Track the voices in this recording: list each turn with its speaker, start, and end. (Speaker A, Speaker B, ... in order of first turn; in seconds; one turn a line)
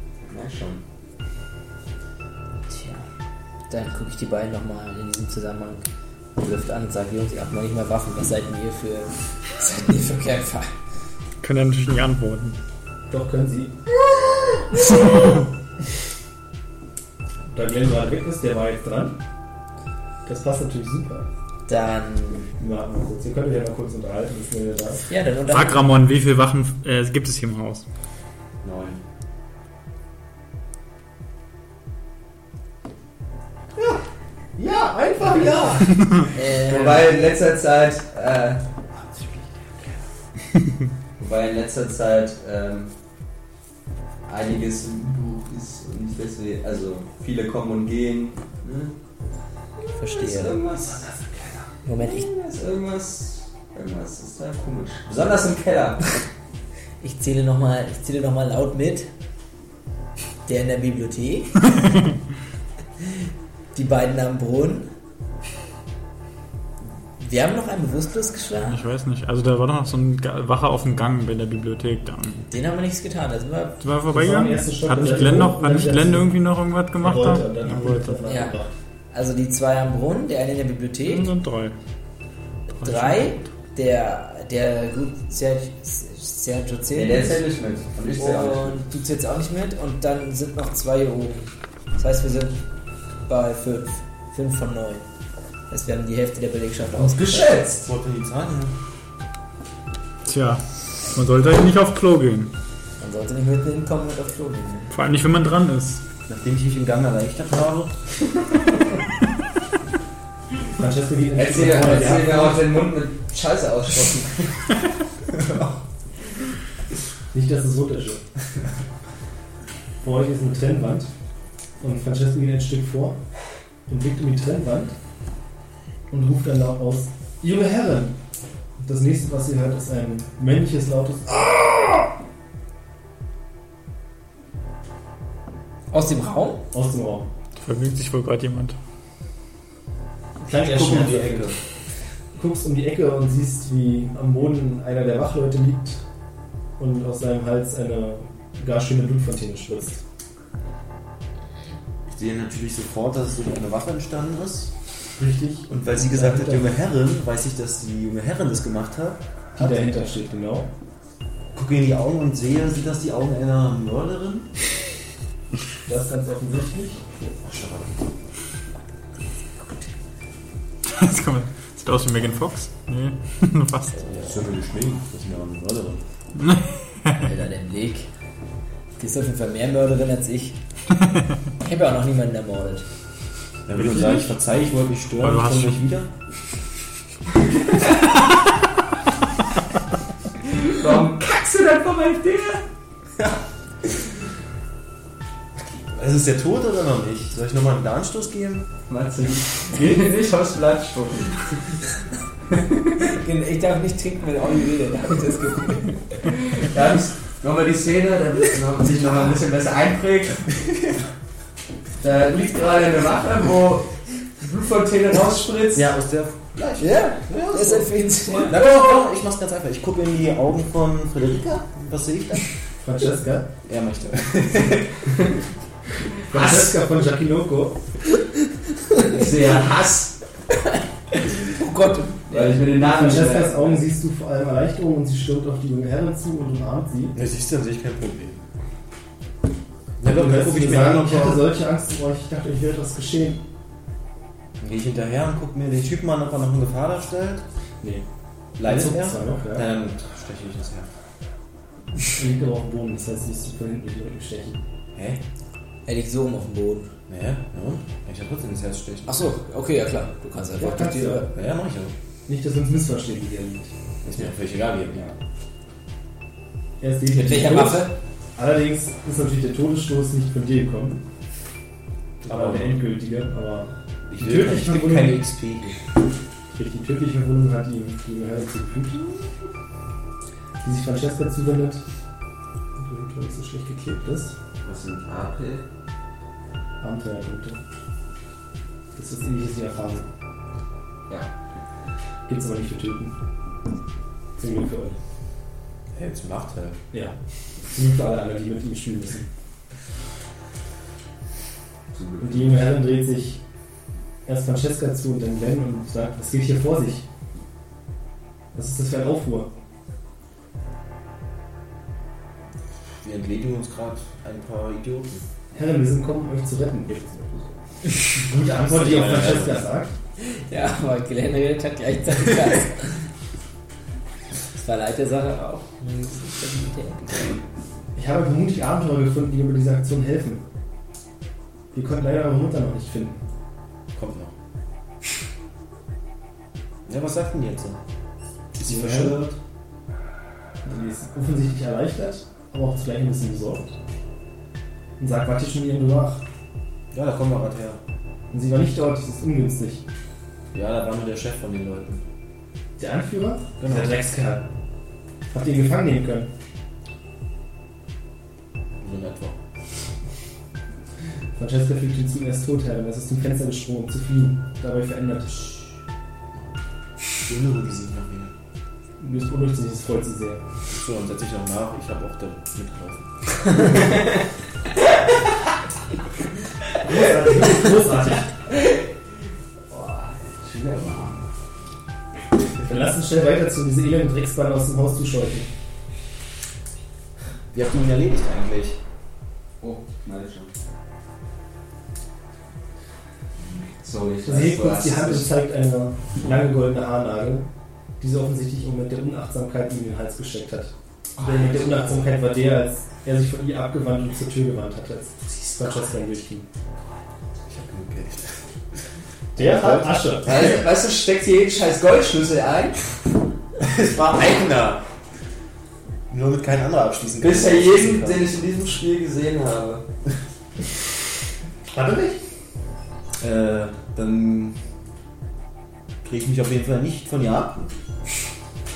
Speaker A: 0.3-0.8
Speaker B: 2.7-3.1
Speaker B: 3.7-10.7
Speaker C: 11.4-12.6
Speaker D: 13.1-13.9
Speaker D: 17.5-19.2
Speaker D: 20.2-21.2
Speaker B: 21.7-22.5
Speaker D: 22.6-25.1
Speaker B: 25.1-25.8
Speaker C: 25.5-27.8
Speaker E: 28.6-29.0
Speaker D: 33.8-34.0
Speaker D: 34.6-36.3
Speaker B: 35.2-37.2
Speaker A: 36.6-38.6
Speaker D: 39.0-39.9
Speaker A: 41.2-42.9
Speaker A: 44.3-48.9
Speaker A: 49.8-51.2
Speaker B: 50.0-50.6
Speaker D: 50.9-51.5
Speaker B: 51.8-52.3
Speaker A: 52.0-56.2
Speaker B: 57.0-59.1
Speaker B: 60.5-61.7
Speaker B: 63.7-64.9
Speaker B: 67.2-68.8
Speaker C: 68.7-72.4
Speaker B: 72.4-73.8
Speaker C: 73.8-78.2
Speaker D: 74.1-76.4
Speaker D: 77.0-78.7
Speaker B: 78.3-78.6
Speaker B: 79.1-81.3
Speaker C: 81.1-81.8
Speaker B: 82.8-87.4
Speaker C: 82.8-83.3
Speaker A: 86.9-88.8
Speaker B: 88.2-92.6
Speaker B: 93.3-95.0
Speaker B: 95.7-97.6
Speaker A: 97.0-97.9
Speaker E: 97.8-98.7
Speaker C: 100.2-102.5
Speaker B: 103.0-104.9
Speaker C: 104.9-106.0
Speaker E: 106.3-108.0
Speaker D: 110.8-112.6
Speaker A: 111.3-114.8
Speaker A: 115.4-115.7
Speaker D: 117.3-118.2
Speaker D: 120.0-121.1
Speaker D: 121.8-123.2
Speaker D: 123.9-125.0
Speaker D: 126.1-128.2
Speaker D: 128.8-131.6
Speaker B: 135.9-136.6
Speaker D: 136.7-137.3
Speaker C: 137.6-138.8
Speaker D: 140.4-141.5
Speaker E: 140.5-141.6
Speaker D: 142.3-146.0
Speaker D: 146.8-150.0
Speaker E: 152.1-154.7
Speaker D: 155.2-156.7
Speaker E: 155.7-159.9
Speaker D: 159.6-160.7
Speaker E: 161.5-164.5
Speaker D: 165.9-167.0
Speaker E: 167.4-168.0
Speaker C: 170.9-174.0
Speaker E: 174.1-176.0
Speaker C: 176.4-177.2
Speaker B: 177.2-178.1
Speaker B: 179.0-180.6
Speaker B: 181.6-182.9
Speaker E: 183.7-186.1
Speaker C: 183.8-184.3
Speaker C: 185.2-185.8
Speaker A: 190.4-192.6
Speaker E: 195.9-198.7
Speaker A: 198.9-201.8
Speaker B: 203.0-206.3
Speaker A: 206.6-210.6
Speaker A: 212.0-215.9
Speaker E: 215.7-222.5
Speaker B: 216.8-218.6
Speaker D: 222.8-223.5
Speaker E: 223.7-224.9
Speaker A: 224.9-225.3
Speaker D: 226.3-227.8
Speaker A: 226.3-226.8
Speaker A: 229.0-230.2
Speaker B: 231.2-232.2
Speaker A: 232.3-233.8
Speaker D: 232.3-237.2
Speaker E: 237.1-238.4
Speaker E: 240.0-241.5
Speaker D: 240.1-243.4
Speaker E: 244.6-247.4
Speaker E: 248.6-250.9
Speaker D: 248.6-249.7
Speaker D: 252.2-254.6
Speaker E: 254.9-255.2
Speaker B: 255.9-256.9
Speaker E: 257.1-259.1
Speaker B: 259.1-261.3
Speaker D: 260.6-261.3
Speaker E: 261.3-261.9
Speaker D: 262.3-263.7
Speaker E: 264.1-265.1
Speaker D: 266.8-271.0
Speaker B: 267.1-267.9
Speaker D: 272.2-275.2
Speaker E: 272.3-272.8
Speaker E: 274.1-275.8
Speaker D: 276.6-279.3
Speaker D: 280.6-281.8
Speaker D: 282.8-284.4
Speaker A: 284.6-285.6
Speaker D: 286.8-287.6
Speaker D: 288.9-290.1
Speaker D: 292.3-293.1
Speaker D: 294.4-295.0
Speaker E: 295.9-296.8
Speaker D: 296.9-297.2
Speaker D: 297.7-299.3
Speaker A: 301.9-302.5
Speaker D: 302.2-303.4
Speaker D: 304.3-307.1
Speaker D: 308.5-309.5
Speaker E: 313.0-315.2
Speaker D: 315.5-319.9
Speaker E: 318.5-319.7
Speaker B: 320.2-323.1
Speaker B: 324.5-327.3
Speaker E: 327.1-327.4
Speaker D: 327.9-330.4
Speaker D: 331.7-333.2
Speaker E: 333.9-334.3
Speaker E: 336.9-337.8
Speaker E: 338.6-339.4
Speaker D: 338.6-339.3
Speaker D: 340.6-343.7
Speaker D: 345.0-346.2
Speaker E: 346.9-347.8
Speaker D: 348.3-349.8
Speaker E: 350.5-352.0
Speaker D: 352.8-354.5
Speaker E: 353.6-354.1
Speaker D: 355.3-356.3
Speaker E: 358.8-359.4
Speaker D: 361.4-365.6
Speaker E: 367.2-368.3
Speaker D: 369.0-370.4
Speaker E: 370.7-373.1
Speaker D: 376.8-378.4
Speaker A: 379.7-381.2
Speaker D: 382.6-385.5
Speaker E: 387.5-388.8
Speaker A: 389.6-390.5
Speaker A: 393.8-395.3
Speaker D: 394.2-397.5
Speaker D: 398.0-406.5
Speaker A: 401.2-401.9
Speaker E: 407.5-408.5
Speaker E: 409.4-410.5
Speaker D: 409.4-410.5
Speaker A: 410.2-413.0
Speaker E: 413.6-414.8
Speaker E: 416.1-418.3
Speaker A: 417.2-419.9
Speaker D: 421.7-422.2
Speaker E: 423.2-424.6
Speaker E: 426.0-427.7